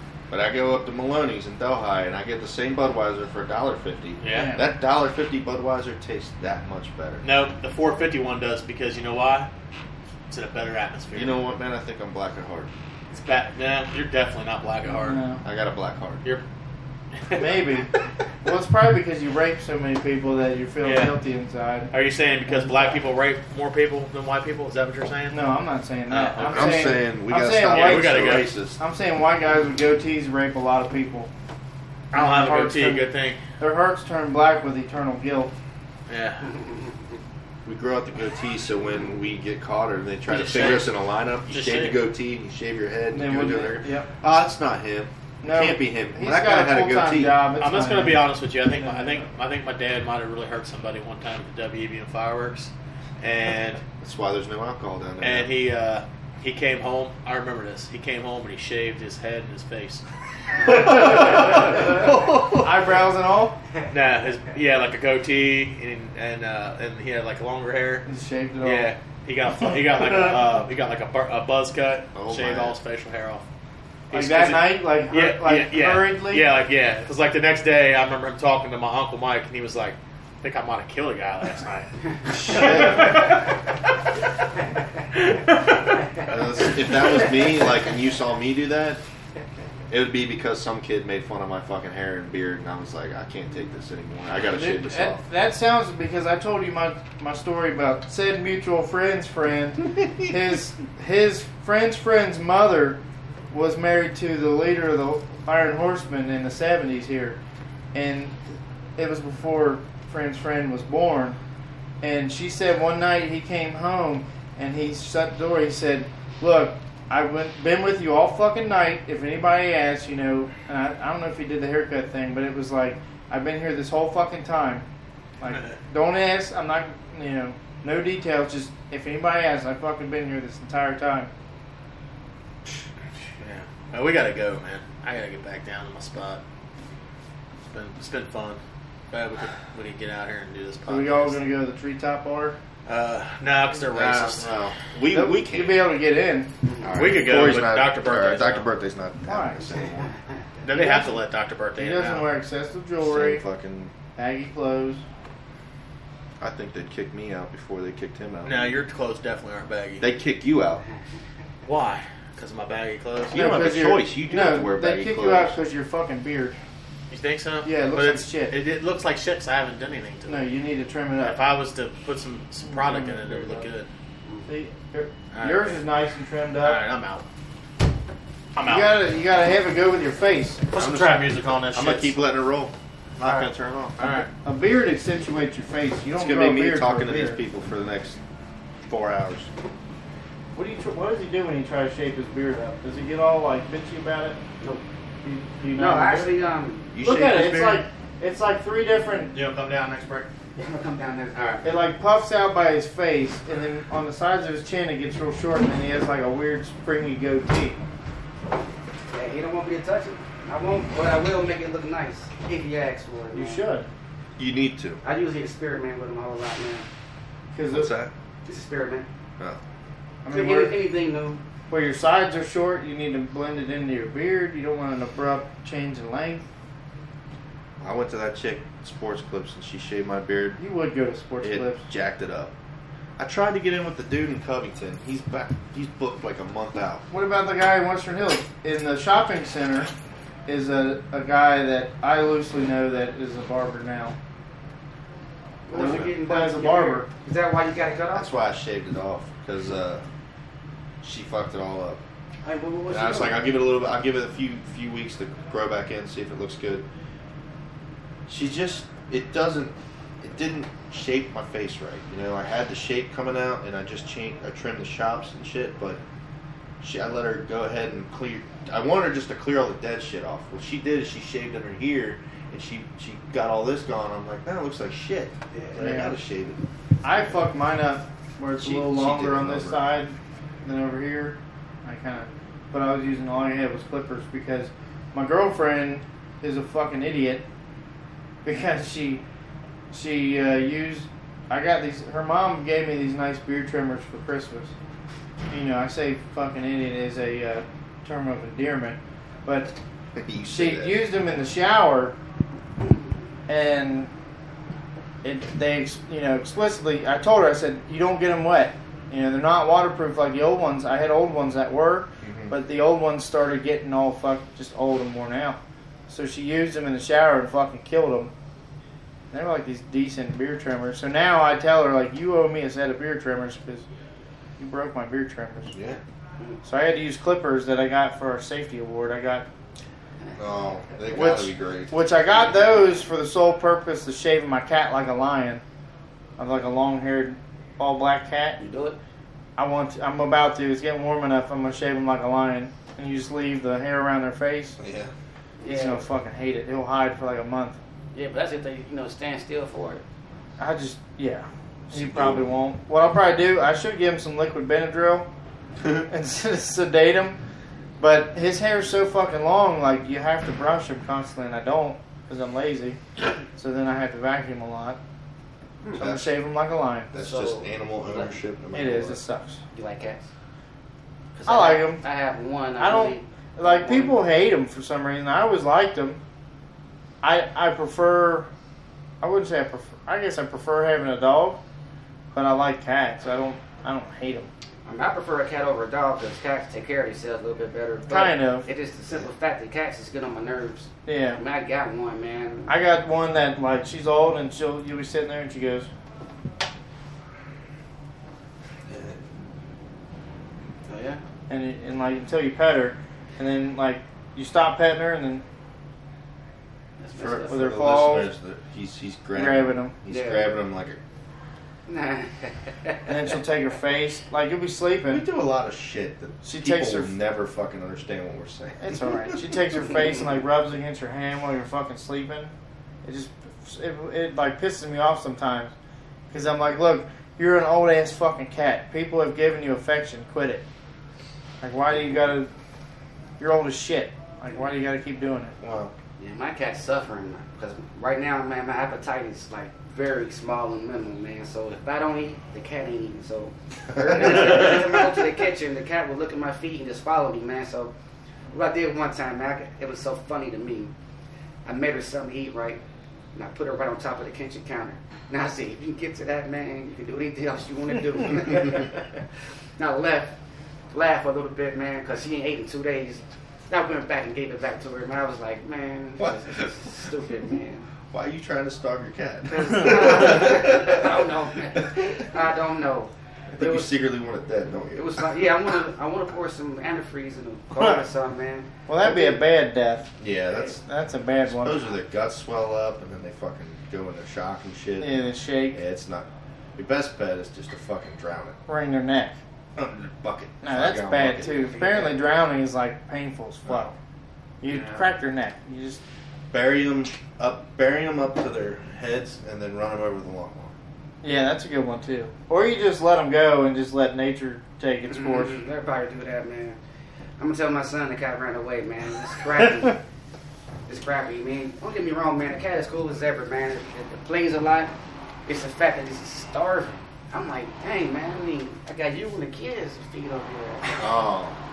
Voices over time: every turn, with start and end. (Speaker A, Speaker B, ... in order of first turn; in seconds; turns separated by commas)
Speaker A: 0.3-7.2, Speaker B: 4.2-4.6, Speaker C: 4.3-4.7, Speaker B: 7.2-9.5, Speaker B: 10.3-11.4, Speaker A: 11.1-12.7, Speaker B: 13.1-15.2, Speaker C: 14.9-15.4, Speaker A: 15.4-16.2, Speaker B: 17.2-17.5, Speaker C: 17.3-17.9, Speaker C: 18.4-21.9, Speaker B: 20.8-21.1, Speaker B: 21.9-25.4, Speaker C: 22.5-23.0, Speaker C: 25.3-31.3, Speaker B: 26.1-27.0, Speaker A: 26.4-28.8, Speaker B: 27.7-28.5, Speaker C: 32.1-33.1, Speaker B: 32.1-33.4, Speaker C: 33.6-35.5, Speaker B: 36.1-36.5, Speaker A: 37.6-47.4, Speaker B: 40.3-40.9, Speaker B: 41.5-42.0, Speaker C: 43.1-44.1, Speaker C: 45.4-49.3, Speaker B: 47.6-53.8, Speaker A: 53.8-55.5, Speaker B: 55.2-60.0, Speaker B: 60.5-62.7, Speaker C: 60.7-63.6, Speaker A: 62.0-62.5, Speaker B: 63.9-68.0, Speaker C: 68.1-68.9, Speaker B: 68.6-73.4, Speaker A: 72.1-72.8, Speaker B: 74.1-83.6, Speaker C: 74.1-76.4, Speaker A: 82.5-83.3, Speaker B: 85.1-86.1, Speaker A: 86.3-89.0, Speaker A: 89.9-95.2, Speaker C: 94.5-107.4, Speaker C: 107.9-111.4, Speaker C: 112.0-124.9, Speaker C: 125.4-131.3, Speaker B: 125.5-125.8, Speaker B: 133.4-136.4, Speaker B: 137.7-141.4, Speaker C: 140.9-142.6, Speaker B: 142.9-144.5, Speaker A: 143.9-145.8, Speaker C: 145.1-146.5, Speaker D: 146.7-147.1, Speaker A: 146.8-150.1, Speaker B: 146.9-148.7, Speaker C: 149.3-149.8, Speaker B: 150.6-152.3, Speaker C: 150.7-151.2, Speaker C: 151.8-153.4, Speaker A: 153.0-153.9, Speaker C: 154.2-155.0, Speaker A: 156.4-158.8, Speaker B: 158.4-160.1, Speaker A: 160.0-160.8, Speaker B: 161.7-163.4, Speaker A: 163.3-165.6, Speaker C: 163.3-166.6, Speaker B: 167.1-170.5, Speaker C: 167.6-168.6, Speaker C: 170.3-171.4, Speaker B: 171.2-173.9, Speaker C: 172.7-173.7, Speaker C: 174.5-176.8, Speaker B: 175.3-175.8, Speaker B: 176.6-177.2, Speaker B: 178.6-179.0, Speaker C: 178.6-180.6, Speaker B: 180.7-182.2, Speaker A: 180.8-184.0, Speaker B: 183.2-184.3, Speaker C: 184.4-187.4, Speaker A: 186.2-188.2, Speaker A: 188.9-189.5, Speaker C: 190.6-194.4, Speaker C: 195.2-196.4, Speaker D: 195.8-196.9, Speaker A: 196.9-197.8, Speaker C: 197.0-199.3, Speaker B: 199.3-200.3, Speaker D: 200.6-201.6, Speaker B: 201.3-201.6, Speaker C: 201.6-207.8, Speaker D: 209.1-213.6, Speaker C: 213.3-213.9, Speaker A: 214.4-215.0, Speaker D: 215.0-216.9, Speaker C: 217.5-217.9, Speaker A: 217.7-218.1, Speaker D: 218.4-219.1, Speaker C: 220.2-220.8, Speaker D: 220.3-221.4, Speaker C: 221.7-226.5, Speaker A: 227.8-230.6, Speaker C: 230.6-231.8, Speaker A: 231.4-232.5, Speaker A: 233.2-237.1, Speaker C: 237.1-239.9, Speaker C: 240.5-244.2, Speaker D: 245.7-248.3, Speaker A: 245.7-246.1, Speaker C: 245.7-247.1, Speaker A: 248.1-250.1, Speaker A: 251.0-252.0, Speaker D: 252.4-253.4, Speaker A: 252.9-256.9, Speaker A: 258.3-266.0, Speaker A: 266.8-276.6, Speaker C: 275.8-276.2, Speaker C: 277.0-287.5, Speaker A: 278.6-279.8, Speaker C: 288.4-289.2, Speaker C: 289.9-294.7, Speaker C: 295.5-299.7, Speaker A: 300.1-301.0, Speaker C: 300.5-302.2, Speaker C: 303.5-304.1, Speaker C: 305.2-318.3, Speaker A: 312.2-312.5, Speaker C: 319.3-323.9, Speaker C: 324.6-325.7, Speaker A: 325.7-326.0, Speaker C: 326.6-329.5, Speaker A: 330.4-331.9, Speaker C: 331.1-335.6, Speaker C: 336.4-338.6, Speaker D: 338.6-339.0, Speaker C: 339.6-344.8, Speaker A: 344.8-345.1, Speaker D: 345.6-346.0, Speaker C: 345.7-347.8, Speaker D: 348.1-350.0, Speaker C: 350.6-355.3, Speaker A: 351.9-352.5, Speaker C: 356.1-357.4, Speaker C: 358.0-363.0, Speaker C: 363.6-365.0, Speaker A: 365.8-366.3, Speaker C: 366.0-367.1, Speaker A: 367.1-369.2, Speaker D: 367.1-368.4, Speaker C: 368.7-369.6, Speaker D: 369.7-370.3, Speaker D: 371.3-374.1, Speaker C: 371.5-372.0, Speaker C: 372.8-376.2, Speaker C: 377.2-378.5, Speaker C: 379.2-381.6, Speaker C: 382.3-384.5, Speaker D: 384.9-392.7, Speaker C: 388.1-388.7, Speaker C: 391.1-391.4, Speaker C: 392.7-395.9, Speaker A: 398.9-399.2, Speaker D: 400.9-401.2, Speaker C: 401.5-405.4, Speaker D: 407.0-407.7, Speaker A: 407.1-411.0, Speaker C: 407.5-408.3, Speaker C: 409.3-410.0, Speaker D: 410.1-410.5, Speaker D: 411.9-413.1, Speaker C: 413.1-415.2, Speaker A: 415.1-419.4, Speaker C: 416.4-417.1, Speaker C: 418.8-422.5, Speaker D: 419.2-420.2, Speaker C: 423.0-425.7, Speaker C: 426.3-430.6, Speaker C: 431.6-432.5, Speaker C: 433.4-435.6, Speaker A: 435.6-435.9, Speaker D: 436.2-447.9, Speaker A: 443.9-444.9, Speaker D: 448.5-450.9, Speaker D: 451.6-452.8, Speaker D: 453.3-459.2, Speaker D: 459.8-460.4, Speaker D: 460.9-467.9, Speaker A: 466.2-466.6, Speaker A: 468.1-471.2, Speaker D: 469.5-473.9, Speaker A: 473.6-475.5, Speaker D: 474.9-479.4, Speaker C: 477.8-478.0, Speaker C: 478.9-480.1, Speaker A: 480.2-480.8, Speaker C: 480.6-482.0, Speaker A: 481.5-485.2, Speaker C: 485.0-485.8, Speaker A: 485.7-488.6, Speaker C: 488.7-489.4, Speaker A: 489.8-491.6, Speaker C: 490.6-493.9, Speaker D: 491.3-492.2, Speaker A: 493.7-493.9, Speaker C: 494.6-496.0, Speaker D: 494.7-495.1, Speaker A: 496.5-500.7, Speaker C: 501.2-505.6, Speaker D: 505.1-506.8, Speaker D: 507.4-510.0, Speaker C: 509.6-509.9, Speaker D: 510.9-514.9, Speaker D: 515.5-521.1, Speaker A: 521.0-521.6